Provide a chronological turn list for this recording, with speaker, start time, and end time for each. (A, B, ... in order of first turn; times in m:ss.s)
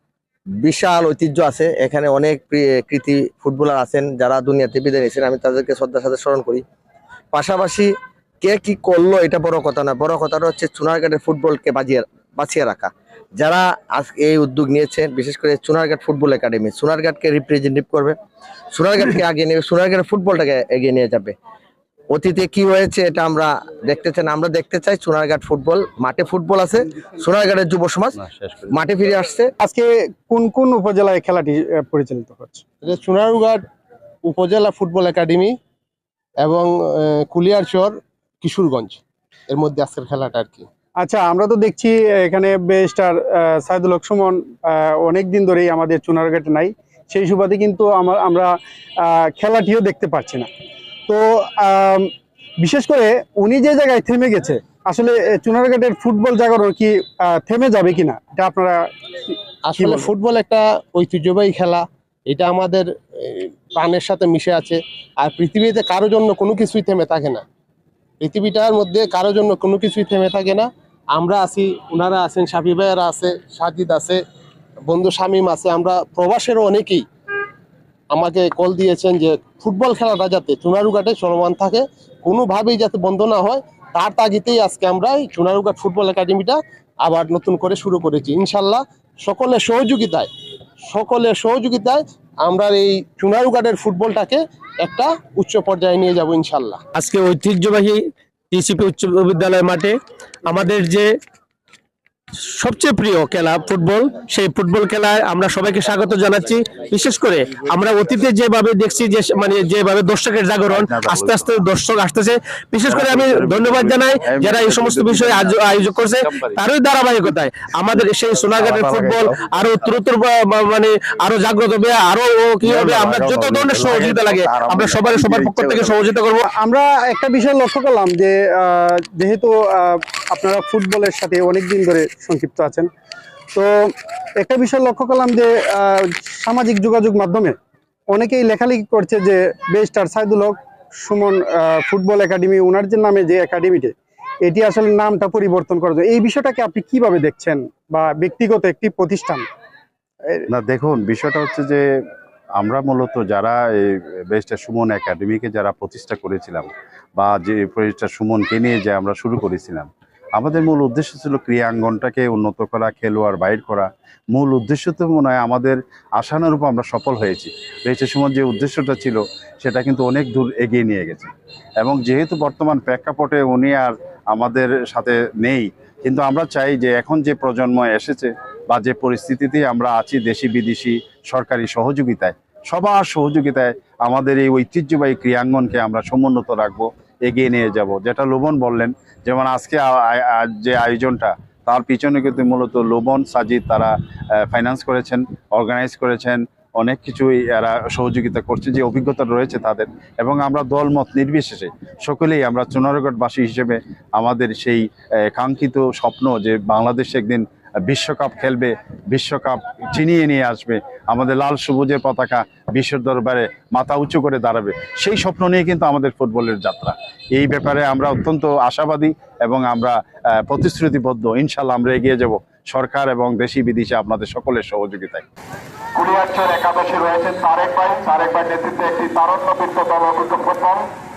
0:00.6-0:06.6 A
0:07.3-0:18.2 A
0:18.7-0:21.4 A
0:22.1-0:28.2 A
0:28.2-0:28.8 B
0:28.7-0:29.5 A
0:29.6-0:32.6 C
0:32.8-0:33.6 D
0:34.3-0:35.6 D
0:36.4-0:40.7 D
0:41.0-0:50.5 C
0:51.1-0:52.1 C
0:52.6-0:58.9 C
0:59.7-1:07.4 D
0:59.8-1:00.1 C
1:08.2-1:14.2 D
1:14.9-1:17.1 D
1:18.1-1:30.3 D
1:30.9-1:36.8 D
1:36.9-1:40.0 E
1:40.5-1:41.1 E
1:42.6-2:06.4 E
1:50.7-1:51.5 B
1:52.9-1:56.6 B
1:58.6-1:59.5 B
2:02.6-2:05.9 B
2:06.5-2:12.9 C
2:13.6-2:17.6 C
2:18.1-2:29.5 C
2:30.5-2:31.8 B
2:32.6-3:45.2 B
3:46.0-3:50.9 F